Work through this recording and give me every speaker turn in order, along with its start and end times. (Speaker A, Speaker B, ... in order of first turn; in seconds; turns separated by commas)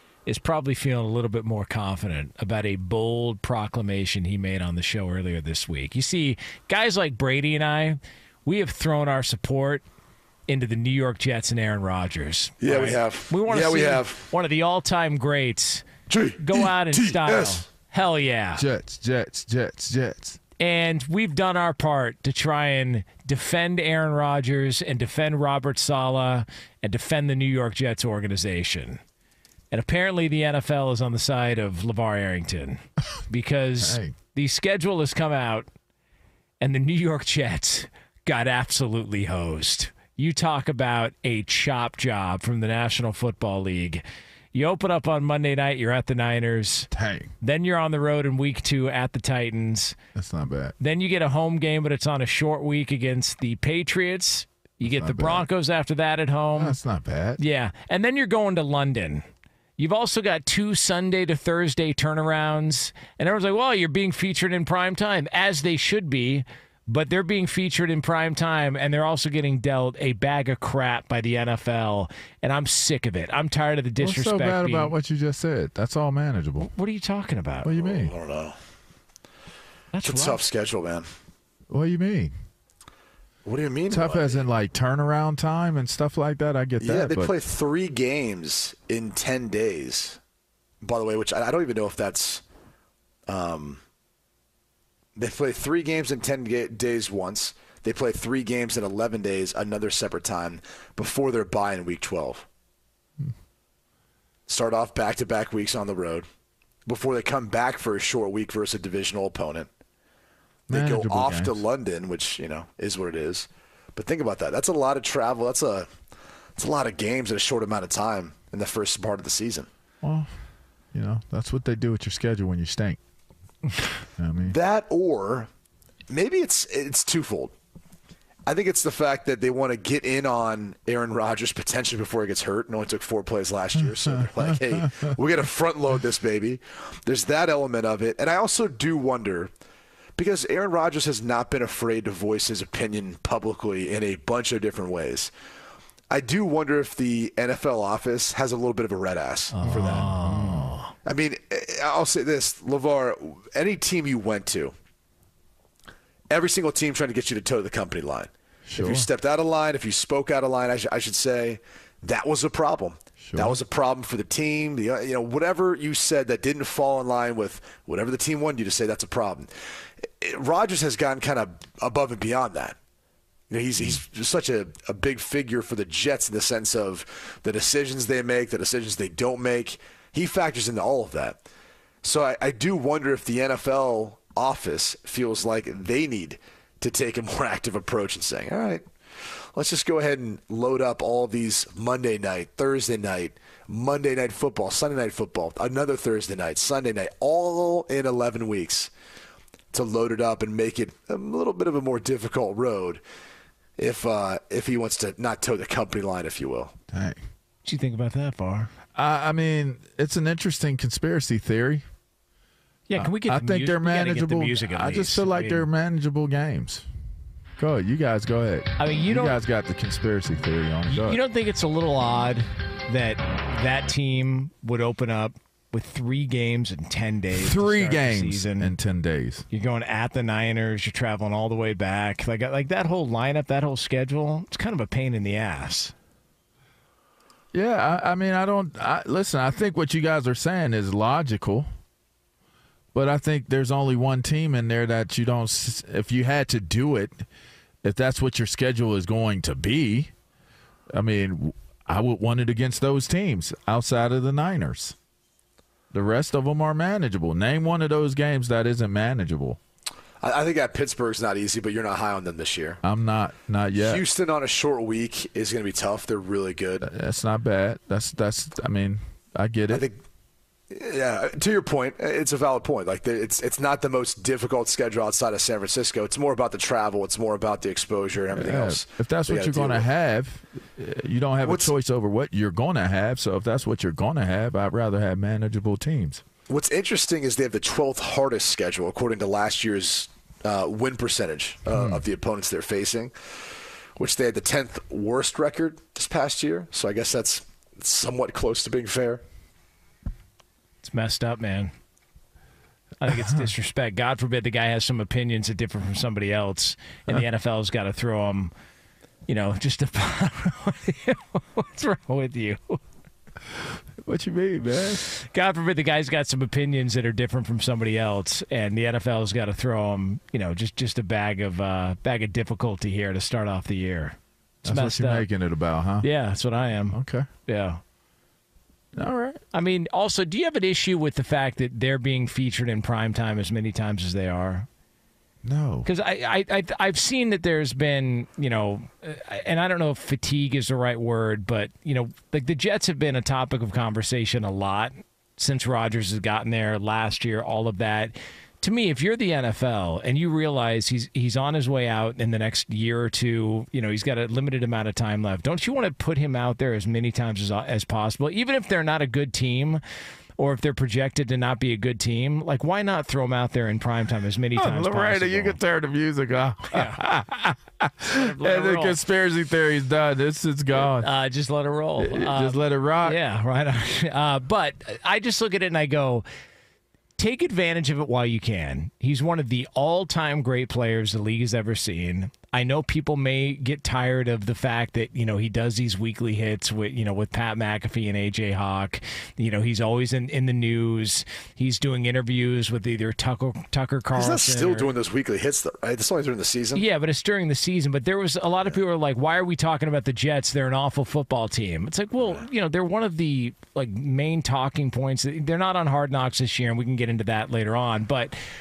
Speaker A: 0.2-9.8, Speaker A: 10.5-18.6, Speaker B: 12.6-14.3, Speaker B: 16.1-17.6, Speaker C: 18.6-20.4, Speaker A: 20.6-29.0, Speaker A: 29.7-35.7, Speaker C: 33.8-34.1, Speaker A: 36.6-46.9, Speaker C: 46.9-47.3, Speaker A: 47.4-50.0, Speaker C: 50.1-50.7, Speaker A: 50.8-56.8, Speaker C: 54.9-55.5, Speaker C: 56.6-57.4, Speaker A: 57.4-59.2, Speaker A: 59.8-74.9, Speaker C: 74.0-76.7, Speaker A: 76.6-77.7, Speaker C: 77.6-78.1, Speaker B: 77.7-78.6, Speaker A: 79.9-80.4, Speaker B: 80.0-81.0, Speaker C: 81.7-82.3, Speaker B: 83.4-84.5, Speaker C: 83.9-87.3, Speaker B: 86.8-90.2, Speaker B: 90.8-92.4, Speaker B: 93.3-93.8, Speaker B: 95.2-102.5, Speaker B: 104.5-106.2, Speaker B: 106.8-109.7, Speaker C: 110.7-111.6, Speaker B: 110.7-115.9, Speaker B: 116.5-119.7, Speaker C: 120.0-120.4, Speaker C: 120.9-123.0, Speaker C: 124.2-124.5, Speaker B: 124.5-125.5, Speaker B: 126.1-127.5, Speaker B: 128.4-139.5, Speaker B: 140.2-145.3, Speaker B: 146.1-150.1, Speaker A: 149.5-150.9, Speaker C: 149.6-150.7, Speaker B: 151.0-154.7, Speaker B: 156.3-172.8, Speaker C: 158.7-159.1, Speaker C: 163.2-163.6, Speaker B: 173.5-181.4, Speaker B: 182.0-198.9, Speaker B: 199.7-203.0, Speaker B: 203.8-206.7, Speaker C: 206.9-207.2, Speaker A: 207.6-208.7, Speaker C: 208.9-211.8, Speaker A: 212.9-215.7, Speaker C: 212.9-216.8, Speaker C: 217.6-221.2, Speaker A: 218.8-219.4, Speaker A: 220.9-228.7, Speaker C: 227.3-229.4, Speaker A: 229.5-235.9, Speaker C: 237.5-241.7, Speaker C: 242.9-247.2, Speaker C: 247.8-250.1, Speaker C: 250.9-254.9, Speaker C: 255.9-259.6, Speaker B: 260.2-262.8, Speaker C: 262.8-264.0, Speaker B: 263.8-266.9, Speaker C: 266.8-269.9, Speaker B: 269.7-270.0, Speaker B: 270.7-279.9, Speaker C: 278.3-286.2, Speaker B: 281.4-281.7, Speaker B: 286.5-293.1, Speaker C: 291.7-292.0, Speaker B: 294.0-299.2, Speaker A: 300.8-301.7, Speaker A: 303.0-308.5, Speaker C: 303.1-303.4, Speaker A: 309.3-312.8, Speaker C: 314.0-315.0, Speaker A: 315.0-325.2, Speaker C: 324.6-326.1, Speaker A: 326.0-327.8, Speaker C: 326.9-327.3, Speaker C: 328.9-329.4, Speaker A: 329.5-334.7, Speaker C: 335.4-335.9, Speaker A: 335.8-359.8, Speaker A: 360.4-365.6, Speaker C: 364.6-371.1, Speaker A: 366.7-367.0, Speaker A: 368.0-369.0, Speaker A: 370.7-376.2, Speaker C: 372.0-373.2, Speaker A: 377.2-394.9, Speaker B: 394.1-396.8, Speaker A: 396.7-408.3